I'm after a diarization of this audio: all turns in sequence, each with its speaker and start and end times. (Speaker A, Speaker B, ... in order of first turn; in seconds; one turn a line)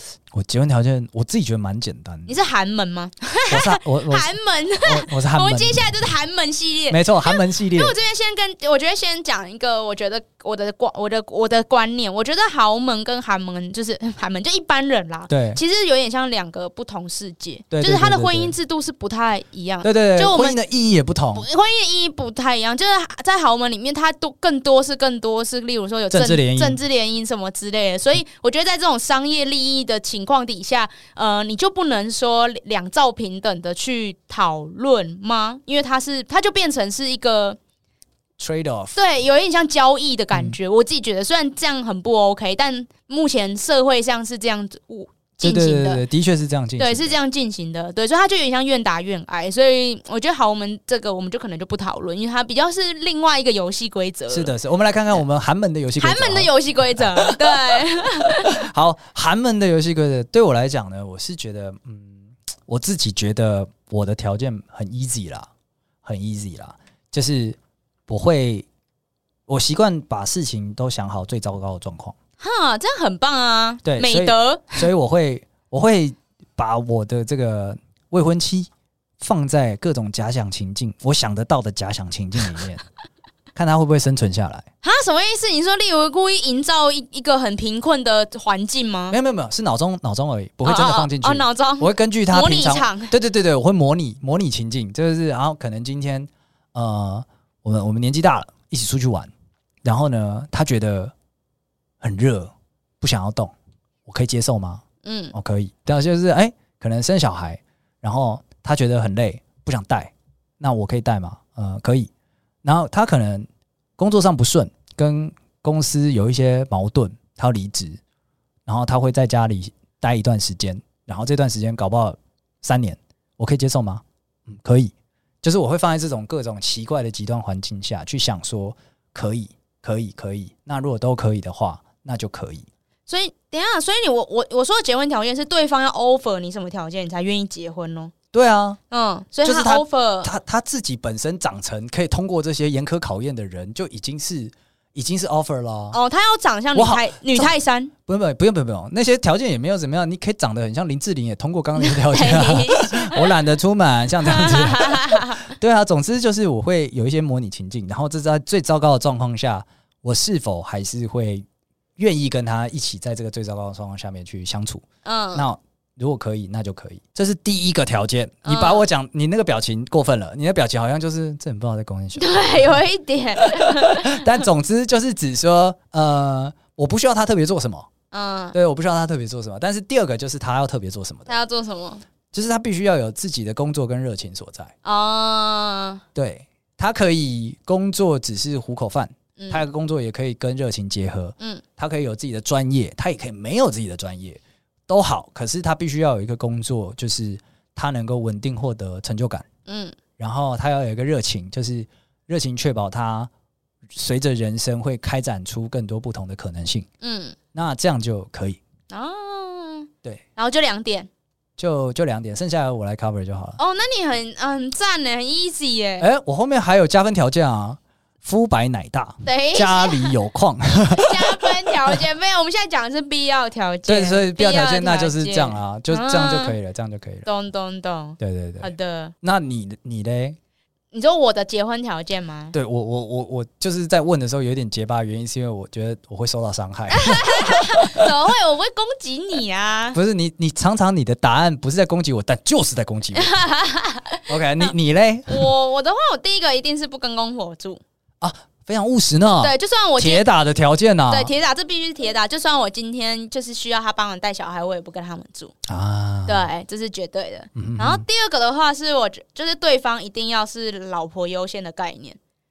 Speaker A: 0.3-2.3
Speaker B: 2.3-20.6
Speaker A: 3.5-4.3
Speaker A: 4.8-5.9
Speaker A: 6.9-8.0
Speaker A: 15.3-15.6
Speaker A: 17.7-18.5
Speaker A: 19.8-21.5
Speaker B: 21.3-37.6
Speaker A: 26.1-26.8
Speaker A: 38.4-39.0
Speaker B: 38.9-46.0
Speaker A: 45.4-47.2
Speaker B: 46.8-54.5
Speaker A: 54.3-65.5
Speaker B: 56.0-58.6
Speaker A: 66.0-67.6
Speaker A: 68.1-68.7
Speaker A: 69.5-72.2
Speaker B: 72.4-74.9
Speaker A: 73.8-82.8
Speaker A: 83.5-84.7
Speaker B: 84.8-89.2
Speaker A: 89.1-99.3
Speaker B: 90.6-93.1
Speaker A: 99.8-101.1
Speaker A: 102.0-103.5
Speaker A: 104.1-104.8
Speaker B: 105.0-105.3
Speaker A: 105.3-112.1
Speaker A: 112.6-118.0
Speaker A: 118.7-132.7
Speaker B: 133.1-138.1
Speaker A: 138.3-138.8
Speaker B: 138.9-140.3
Speaker A: 139.4-146.0
Speaker B: 145.9-147.9
Speaker A: 146.7-147.5
Speaker A: 148.1-161.4
Speaker B: 151.8-153.3
Speaker B: 154.2-155.5
Speaker A: 162.0-172.8
Speaker B: 165.1-165.5
Speaker B: 168.4-168.8
Speaker B: 172.2-174.4
Speaker A: 173.4-177.9
Speaker B: 178.1-178.6
Speaker A: 178.5-181.3
Speaker B: 181.3-182.0
Speaker A: 182.3-184.7
Speaker B: 184.8-186.0
Speaker A: 186.2-199.5
Speaker B: 189.4-189.7
Speaker B: 199.7-200.0
Speaker A: 200.2-203.3
Speaker A: 203.9-206.9
Speaker B: 207.0-207.4
Speaker A: 207.5-208.6
Speaker B: 208.9-211.1
Speaker A: 211.6-213.6
Speaker B: 213.6-216.1
Speaker A: 216.0-222.0
Speaker B: 219.2-220.1
Speaker B: 220.9-226.6
Speaker A: 223.9-227.3
Speaker B: 227.3-229.1
Speaker A: 228.2-230.4
Speaker B: 230.9-232.6
Speaker A: 232.5-238.1
Speaker B: 236.9-240.0
Speaker A: 239.9-243.3
Speaker B: 243.2-244.7
Speaker A: 244.3-245.5
Speaker B: 245.3-247.8
Speaker A: 248.2-251.3
Speaker B: 249.4-250.3
Speaker B: 251.1-255.5
Speaker A: 255.7-256.5
Speaker B: 256.3-262.2
Speaker A: 257.6-258.1